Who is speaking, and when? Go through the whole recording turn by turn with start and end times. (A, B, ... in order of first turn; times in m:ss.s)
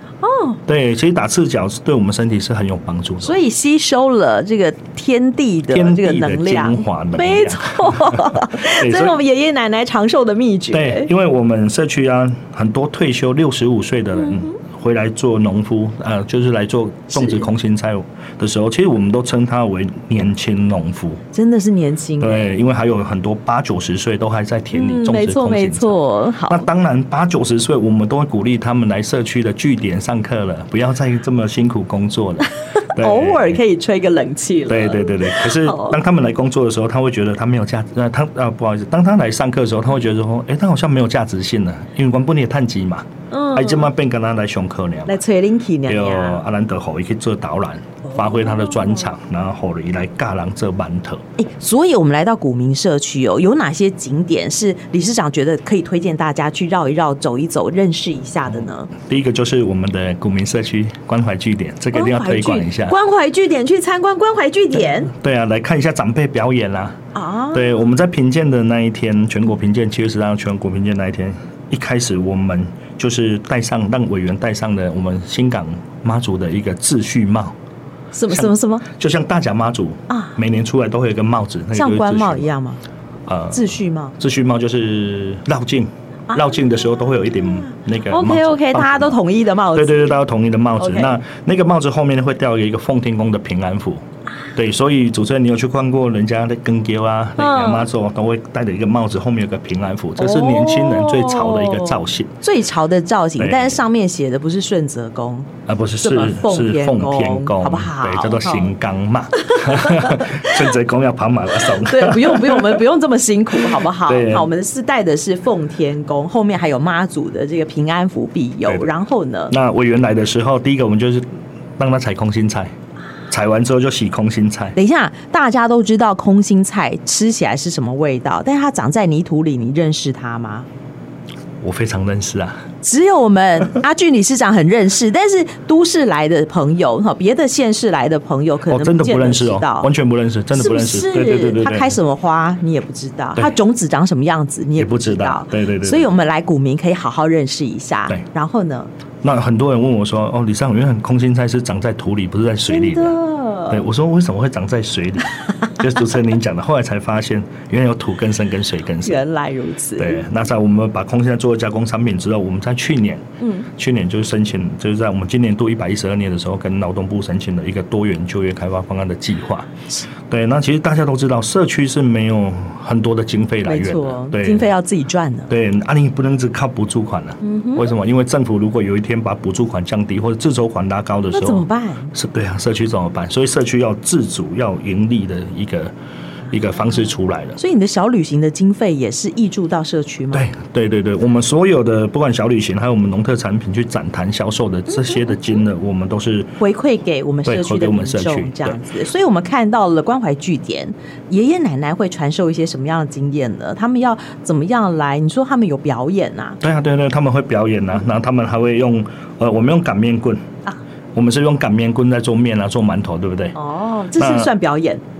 0:00.2-0:00.6 A
0:00.7-0:03.4 B
0:03.2-0:11.1 A
0:05.7-0:09.2 B
0:10.7-0:21.2 B
0:14.2-0:14.5 A
0:17.1-0:17.5 A
0:21.3-0:22.5 A
0:22.2-0:33.6 B
0:24.7-0:26.7 A
0:32.7-0:36.0 A
0:34.7-0:45.2 B
0:43.3-0:43.9 A
0:45.0-0:46.4 A
0:45.8-0:51.2 B
0:48.0-0:49.1 A
0:51.4-0:58.9 A
0:58.9-1:03.0 B
1:01.9-1:05.1 A
1:05.1-1:07.0 B
1:07.1-1:07.9 A
1:07.5-1:17.5 B
1:18.1-1:18.8 A
1:18.3-1:22.5 B
1:20.1-1:20.4 A
1:21.7-1:22.8 A
1:23.2-1:29.2 B
1:23.5-1:24.2 A
1:26.3-1:30.2 A
1:29.7-1:34.0 B
1:30.8-1:31.1 A
1:34.6-1:42.4 B
1:37.4-1:37.9 A
1:40.2-1:45.5 A
1:43.4-1:43.8 B
1:45.7-1:52.8 B
1:46.0-1:48.7 A
1:49.4-1:50.6 A
1:51.6-1:59.5 A
1:54.0-1:54.5 B
1:58.6-1:58.9 B
1:59.5-2:01.2 B
2:01.8-2:02.7 B
2:03.3-2:04.8 B
2:04.8-2:10.7 A
2:11.6-2:12.6 B
2:12.8-2:19.9 A
2:18.7-2:22.0 B
2:20.5-2:28.9 A
2:24.8-2:26.1 B
2:29.2-2:33.2 B
2:32.7-2:33.8 A
2:33.7-2:39.2 B
2:39.0-2:40.2 A
2:40.0-2:49.7 B
2:43.4-2:43.7 A
2:50.3-2:54.7 B
2:53.6-2:55.5 A
2:55.5-3:05.9 B
2:57.4-2:57.9 A
3:01.3-3:02.1 A
3:06.5-3:07.6 B
3:07.6-3:10.5 A
3:10.3-3:16.6 B
3:14.9-3:15.3 A
3:16.6-3:26.6 A
3:17.4-3:18.8 B
3:26.6-3:30.5 B
3:31.1-3:33.6 B
3:33.6-3:35.0 A
3:34.1-3:34.5 B